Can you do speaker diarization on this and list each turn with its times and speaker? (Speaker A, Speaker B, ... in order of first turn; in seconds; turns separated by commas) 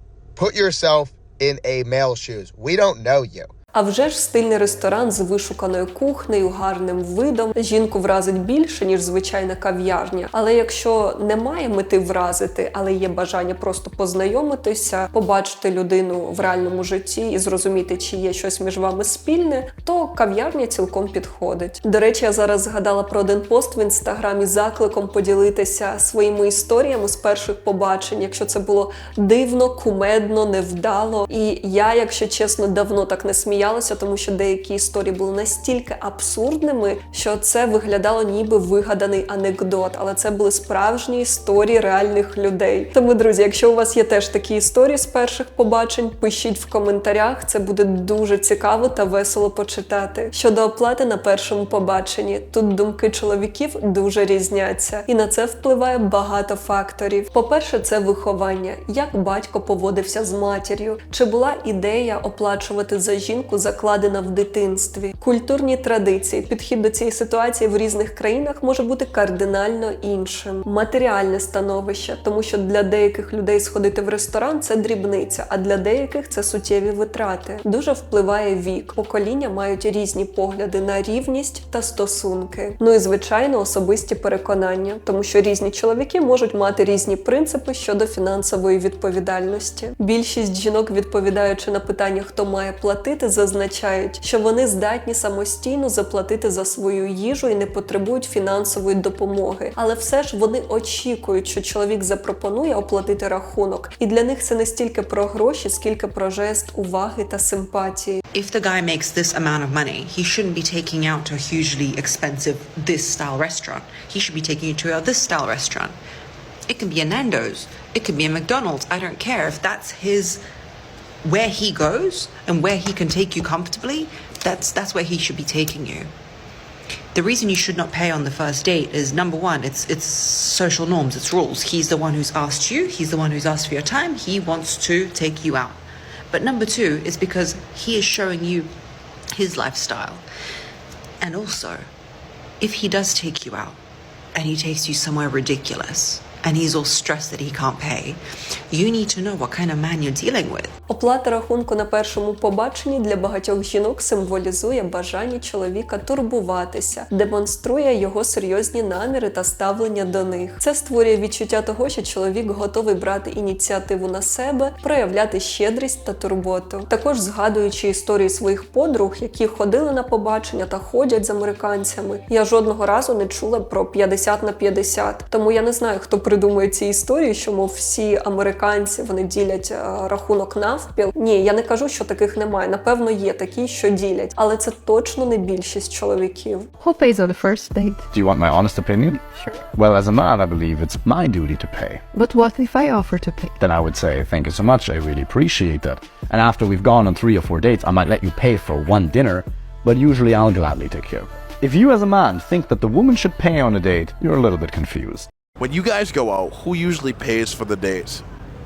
Speaker A: 0.3-3.5, Speaker B: 3.7-108.2, Speaker C: 108.3-116.0, Speaker C: 116.7-120.4, Speaker C: 121.2-126.1, Speaker C: 127.1-135.8, Speaker C: 136.3-138.7, Speaker C: 139.3-140.2, Speaker C: 141.2-141.9, Speaker C: 142.6-143.8, Speaker C: 144.3-148.2, Speaker C: 148.7-150.7, Speaker B: 150.9-186.7, Speaker D: 186.8-188.4, Speaker E: 188.2-189.2, Speaker D: 189.1-189.9, Speaker E: 189.8-192.0, Speaker D: 191.9-193.9, Speaker E: 193.7-205.2, Speaker F: 205.6-208.2